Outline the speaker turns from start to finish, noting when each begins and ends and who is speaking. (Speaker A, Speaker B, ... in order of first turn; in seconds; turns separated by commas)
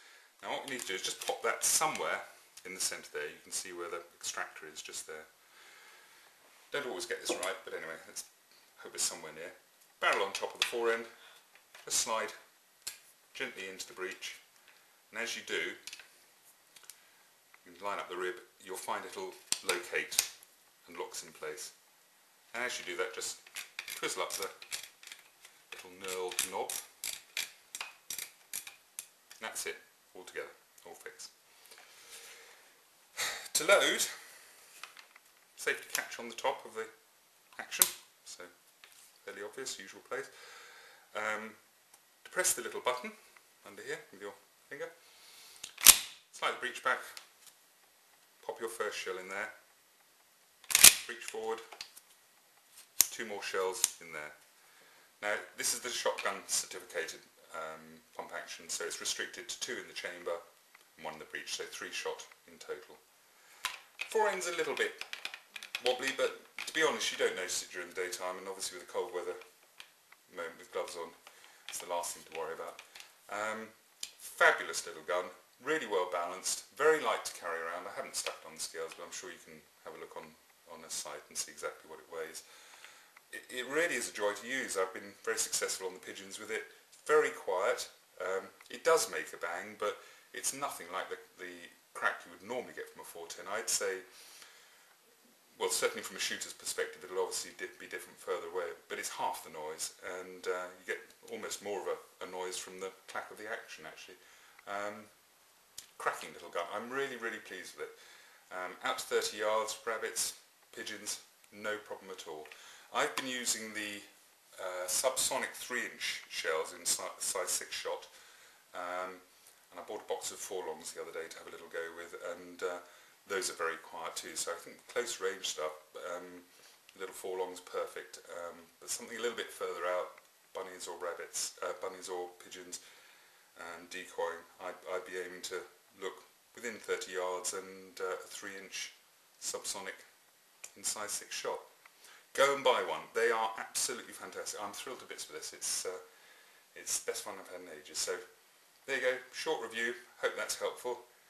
Speaker A: 0.4-5.3, Speaker A: 6.7-11.1, Speaker A: 11.8-12.3, Speaker A: 13.3-14.4, Speaker A: 15.1-15.8, Speaker A: 17.6-20.3, Speaker A: 20.8-21.7, Speaker A: 22.5-24.6, Speaker A: 25.7-26.9, Speaker A: 29.4-31.3, Speaker A: 33.2-34.5, Speaker A: 35.5-36.9, Speaker A: 37.5-38.5, Speaker A: 39.2-41.6, Speaker A: 42.2-44.9, Speaker A: 46.3-47.2, Speaker A: 48.4-49.5, Speaker A: 51.0-51.6, Speaker A: 53.1-54.4, Speaker A: 55.2-60.4, Speaker A: 61.0-63.0, Speaker A: 64.0-65.0, Speaker A: 65.8-69.4, Speaker A: 70.3-71.2, Speaker A: 71.7-82.5, Speaker A: 83.3-94.1, Speaker A: 95.5-105.1, Speaker A: 105.9-118.1, Speaker A: 118.7-132.8, Speaker A: 133.5-140.0, Speaker A: 140.7-141.6, Speaker A: 142.3-146.0, Speaker A: 146.7-148.2, Speaker A: 148.8-151.0